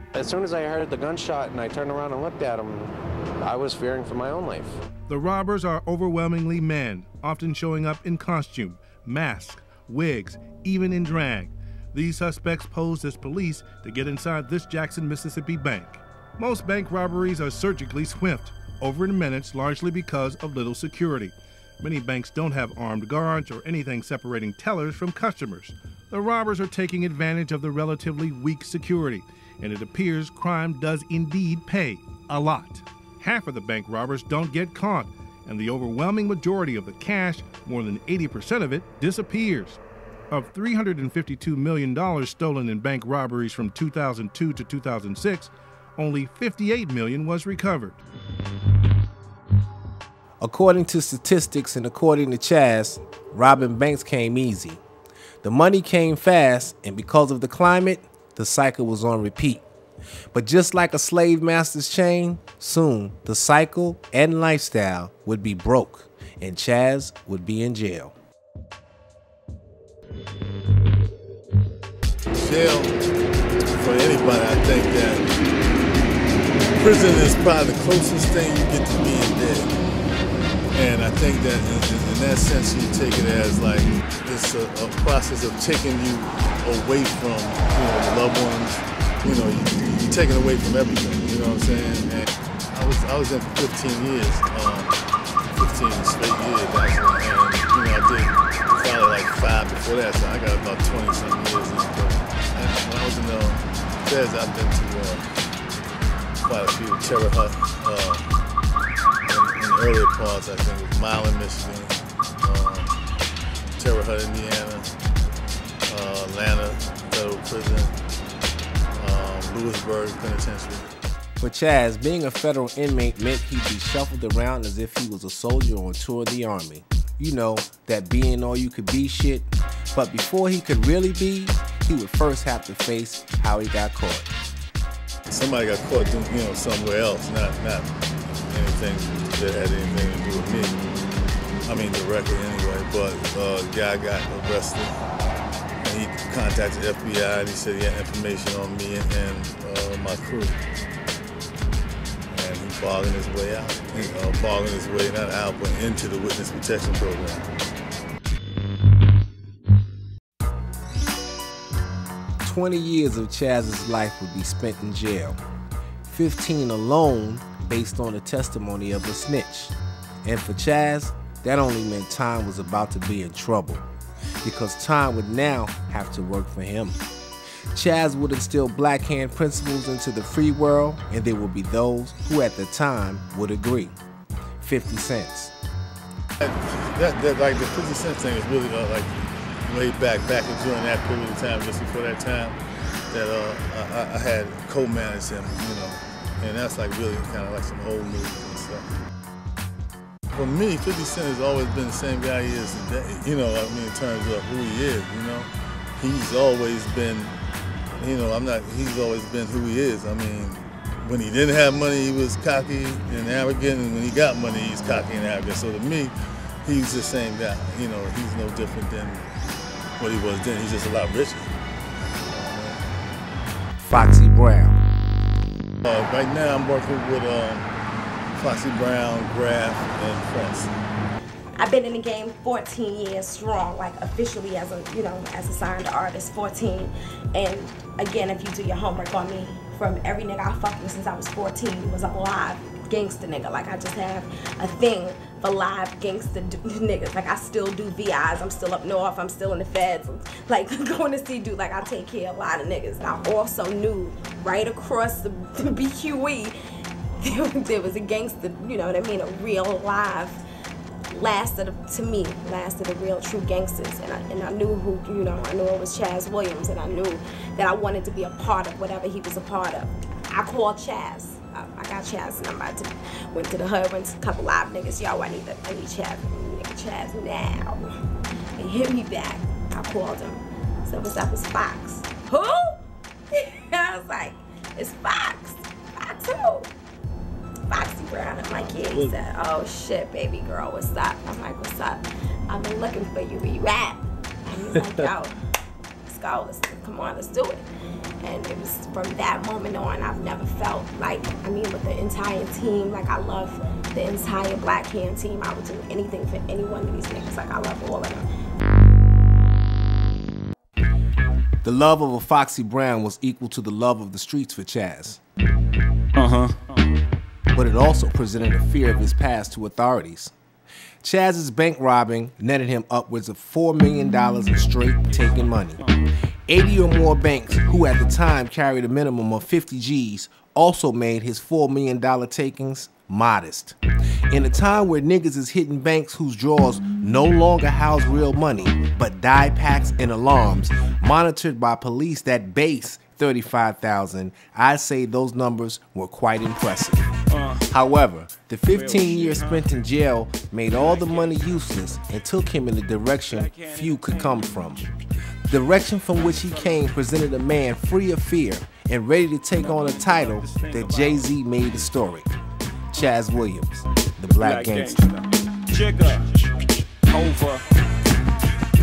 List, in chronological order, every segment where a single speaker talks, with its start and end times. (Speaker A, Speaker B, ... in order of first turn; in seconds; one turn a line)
Speaker A: 0.1-4.8
Speaker B: 5.1-48.0
Speaker C: 50.4-54.8
Speaker C: 55.4-59.7
Speaker C: 60.3-68.2
Speaker D: 72.3-73.0
Speaker D: 73.7-75.2
Speaker D: 76.8-79.7
Speaker D: 80.7-95.0
Speaker D: 95.5-105.2
Speaker D: 106.4-108.3
Speaker D: 109.3-113.0
Speaker D: 113.8-114.9
Speaker D: 115.9-117.9
Speaker D: 119.0-120.9
Speaker C: 121.4-134.3
Speaker D: 135.3-140.8
Speaker D: 141.7-145.0
Speaker D: 145.8-150.6
Speaker D: 152.3-157.5
Speaker C: 162.4-165.4
Speaker C: 166.1-173.9
Speaker C: 174.4-177.0
Speaker C: 177.7-184.0
Speaker C: 184.6-185.5
Speaker D: 186.4-192.6
Speaker D: 193.1-198.9
Speaker D: 200.3-207.3
Speaker D: 208.0-219.3
Speaker D: 220.0-221.5
Speaker D: 222.3-222.8
Speaker C: 223.8-224.8
Speaker D: 225.8-227.7
Speaker D: 228.3-230.7
Speaker E: 231.6-256.6
Speaker E: 257.2-260.4
Speaker E: 261.1-277.9
Speaker E: 278.6-282.8
Speaker E: 283.3-286.7
Speaker E: 287.7-295.4
Speaker E: 296.1-297.7
Speaker E: 298.2-308.3
Speaker C: 311.6-315.2
Speaker F: 316.2-316.8
Speaker C: 317.5-320.3
Speaker C: 321.0-325.9
Speaker F: 325.1-326.0
Speaker C: 326.5-333.8
Speaker C: 334.3-347.1
Speaker F: 347.3-347.7
Speaker C: 347.7-354.9
Speaker F: 348.7-349.7
Speaker F: 350.8-351.7
Speaker F: 353.3-354.6
Speaker C: 355.5-362.4
Speaker F: 356.1-356.8
Speaker F: 359.6-361.3
Speaker C: 362.9-365.0
Speaker F: 364.3-367.6